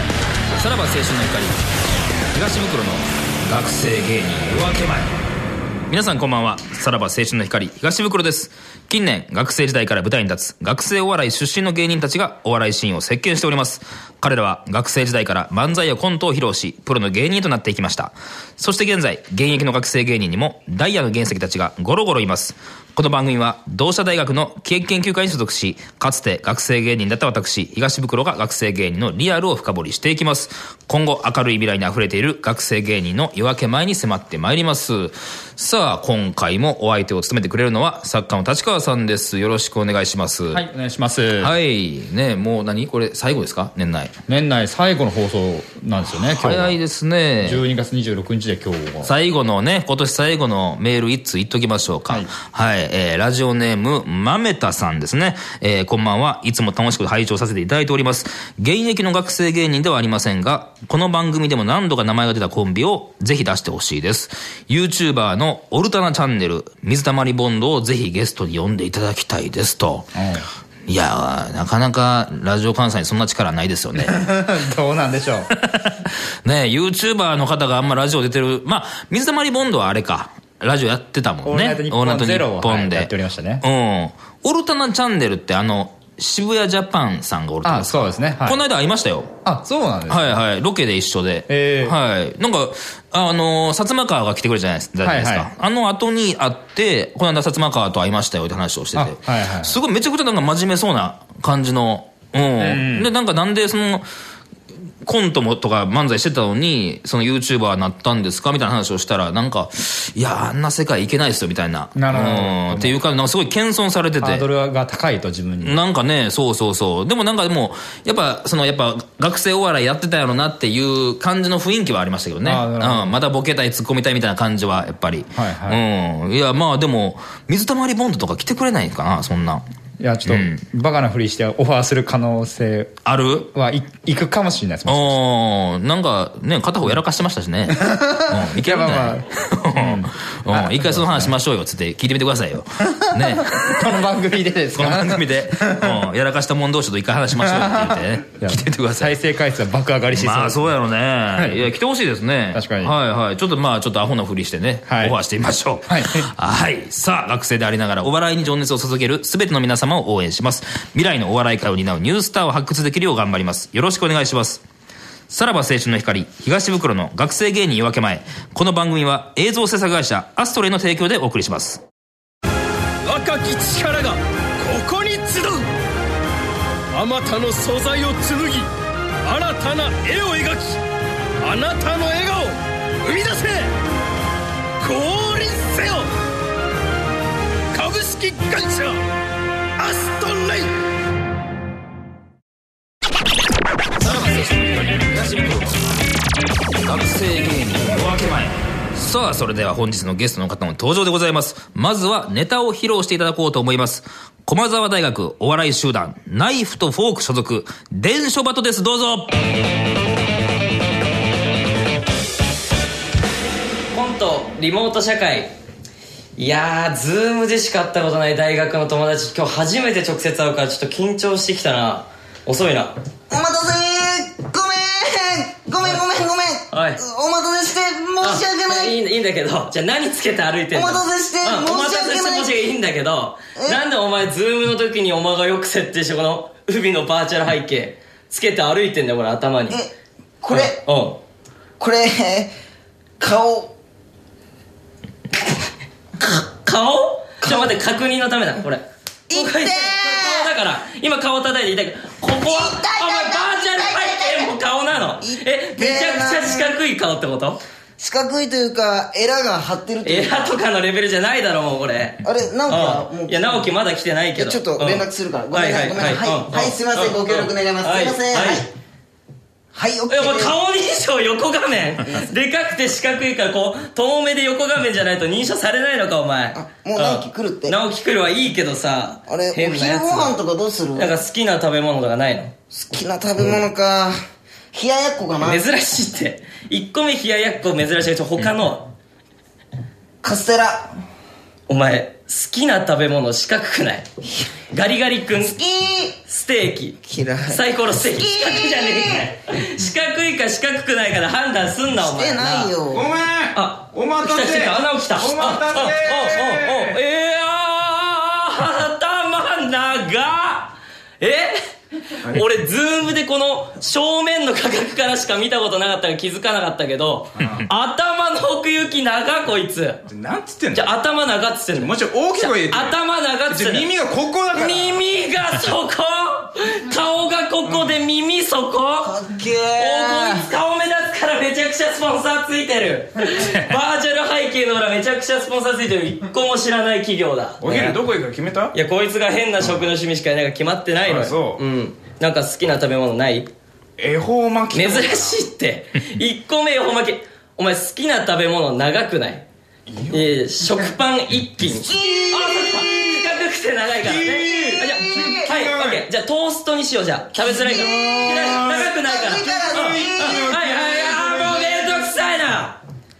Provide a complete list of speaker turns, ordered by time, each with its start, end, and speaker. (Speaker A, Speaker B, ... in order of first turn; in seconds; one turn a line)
Speaker A: 0.6-1.6
Speaker A: 2.3-5.1
Speaker A: 5.9-40.6
Speaker B: 40.5-41.5
Speaker A: 41.4-44.1
Speaker B: 44.3-46.8
Speaker A: 46.1-47.6
Speaker B: 47.4-49.1
Speaker A: 49.0-70.1
Speaker B: 70.2-70.4
Speaker A: 70.9-74.1
Speaker B: 74.0-75.5
Speaker A: 75.5-83.1
Speaker B: 81.4-83.6
Speaker A: 83.6-89.3
Speaker B: 87.6-88.6
Speaker B: 89.4-90.4
Speaker A: 90.1-104.0
Speaker B: 91.5-91.9
Speaker B: 95.0-95.5
Speaker B: 99.0-99.8
Speaker B: 102.6-103.1
Speaker A: 105.0-114.5
Speaker B: 111.9-113.0
Speaker B: 114.2-115.8
Speaker A: 115.6-129.6
Speaker B: 122.4-123.1
Speaker B: 125.3-125.8
Speaker B: 130.0-132.9
Speaker A: 130.2-130.6
Speaker A: 133.0-133.5
Speaker B: 133.5-135.2
Speaker A: 134.9-143.8
Speaker B: 137.7-139.2
Speaker B: 139.7-141.3
Speaker B: 142.8-146.0
Speaker A: 144.7-149.1
Speaker B: 147.4-150.7
Speaker A: 150.1-164.6
Speaker B: 151.3-151.7
Speaker B: 152.5-152.9
Speaker B: 154.9-155.1
Speaker B: 155.9-156.3
Speaker A: 165.3-171.8
Speaker C: 173.1-175.7
Speaker C: 176.9-178.7
Speaker C: 179.2-180.8
Speaker C: 181.4-183.7
Speaker C: 184.8-186.1
Speaker C: 187.7-189.0
Speaker C: 189.8-190.7
Speaker A: 194.0-196.1
Speaker A: 196.8-209.3
Speaker D: 213.9-215.5
Speaker D: 216.4-222.9
Speaker E: 223.3-229.0
Speaker D: 226.7-227.0
Speaker D: 228.2-239.8
Speaker E: 230.7-232.5
Speaker E: 233.6-233.8
Speaker E: 239.7-240.8
Speaker D: 240.5-241.2
Speaker E: 241.8-242.5
Speaker E: 243.2-243.7
Speaker D: 245.4-245.7
Speaker D: 246.3-257.6
Speaker E: 247.4-247.8
Speaker E: 249.3-250.5
Speaker E: 252.3-254.5
Speaker E: 255.2-256.7
Speaker E: 258.0-260.5
Speaker D: 260.0-268.7
Speaker E: 262.2-263.7
Speaker E: 264.4-268.6
Speaker E: 269.7-270.6
Speaker D: 270.1-280.3
Speaker E: 276.5-277.8
Speaker E: 279.3-281.1
Speaker D: 280.9-282.5
Speaker E: 282.7-284.2
Speaker E: 284.7-285.6
Speaker D: 285.4-288.9
Speaker E: 290.2-290.9
Speaker D: 291.7-294.1
Speaker D: 294.7-295.6
Speaker E: 295.5-296.1
Speaker D: 296.2-302.7
Speaker E: 297.0-299.2
Speaker E: 302.0-306.9
Speaker D: 303.5-320.0
Speaker F: 320.1-320.9
Speaker D: 320.7-323.9
Speaker F: 321.8-325.0
Speaker D: 324.5-329.2
Speaker E: 329.0-330.4
Speaker D: 329.8-338.0
Speaker F: 337.6-338.7
Speaker D: 338.7-343.5
Speaker F: 339.6-339.9
Speaker F: 341.0-341.6
Speaker F: 344.0-345.4
Speaker D: 344.7-349.4
Speaker F: 349.9-350.2
Speaker D: 350.1-362.8
Speaker E: 351.7-353.1
Speaker F: 354.0-355.6
Speaker E: 354.5-355.9
Speaker E: 357.4-361.5
Speaker F: 359.7-360.1